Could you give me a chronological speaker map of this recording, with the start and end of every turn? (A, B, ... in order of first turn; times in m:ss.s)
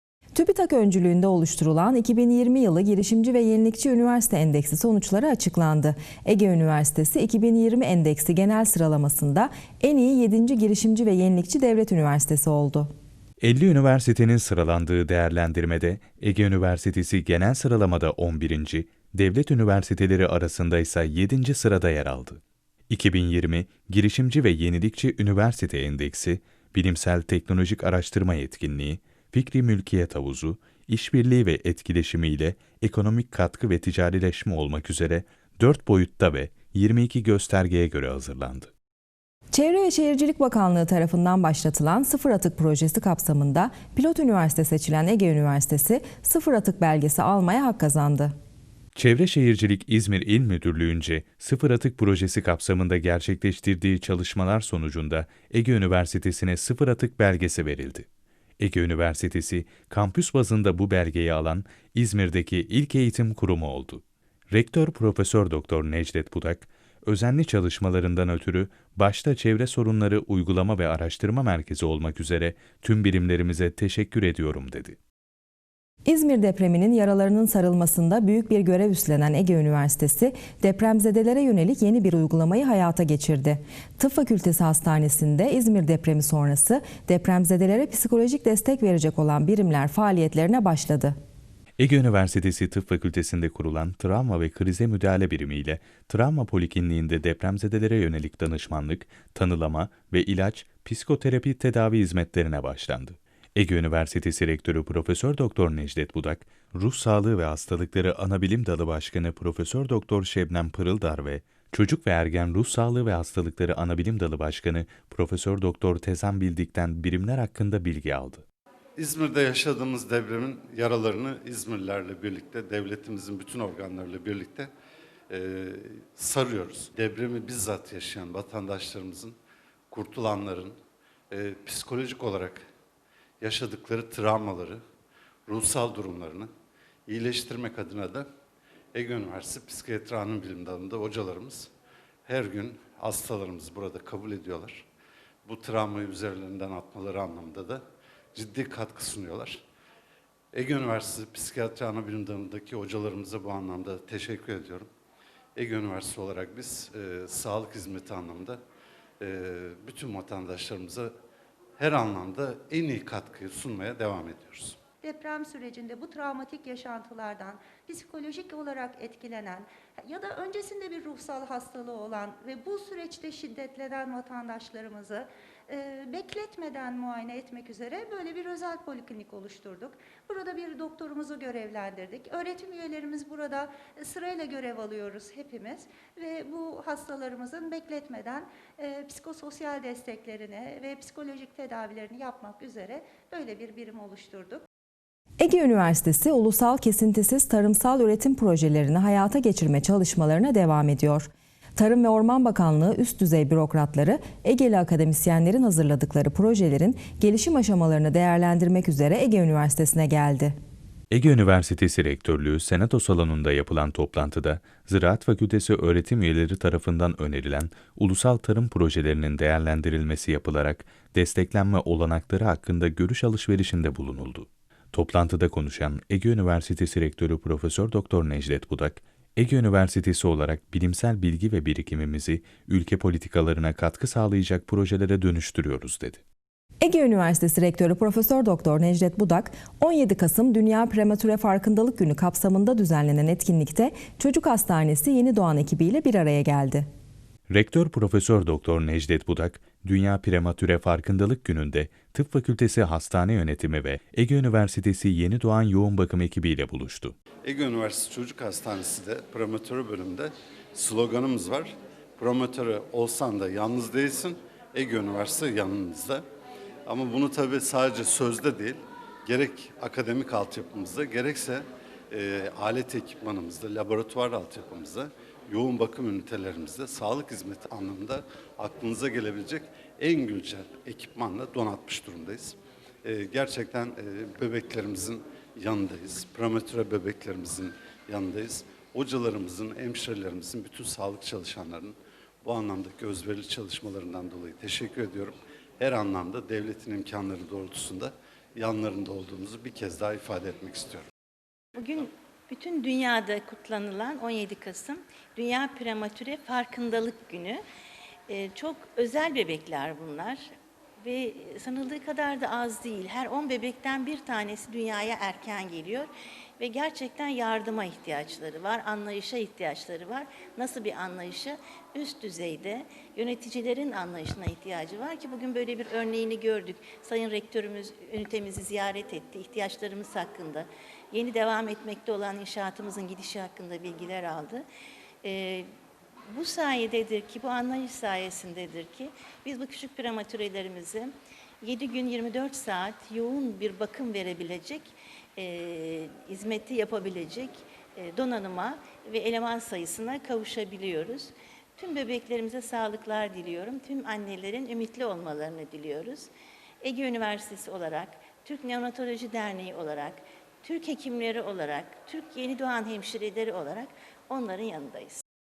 0:00.3-0:12.9 A
0:13.4-0:38.7 B
0:39.5-0:48.3 A
0:49.0-0:58.1 B
0:58.6-1:15.0 B
1:16.1-1:31.2 A
1:31.8-1:58.4 B
1:59.0-2:04.7 C
2:05.3-2:09.4 C
2:09.9-2:10.8 C
2:11.3-2:12.6 C
2:13.4-2:14.8 C
2:15.5-2:16.5 C
2:17.1-2:18.3 C
2:18.9-2:21.7 C
2:22.3-2:24.9 C
2:25.4-2:27.8 C
2:28.3-2:29.6 C
2:30.5-2:34.9 C
2:35.6-2:38.6 C
2:39.2-2:41.1 C
2:41.8-2:44.8 C
2:45.0-3:14.6 D
3:15.4-3:30.6 A
3:31.1-3:56.2 B
3:56.8-4:06.9 A
4:07.5-4:17.2 B
4:17.4-4:26.2 C
4:26.9-5:01.1 C
5:01.8-5:07.6 E
5:08.3-5:10.4 E
5:11.0-5:34.6 E
5:35.2-5:35.7 E
5:36.3-5:56.3 E
5:56.8-6:05.2 E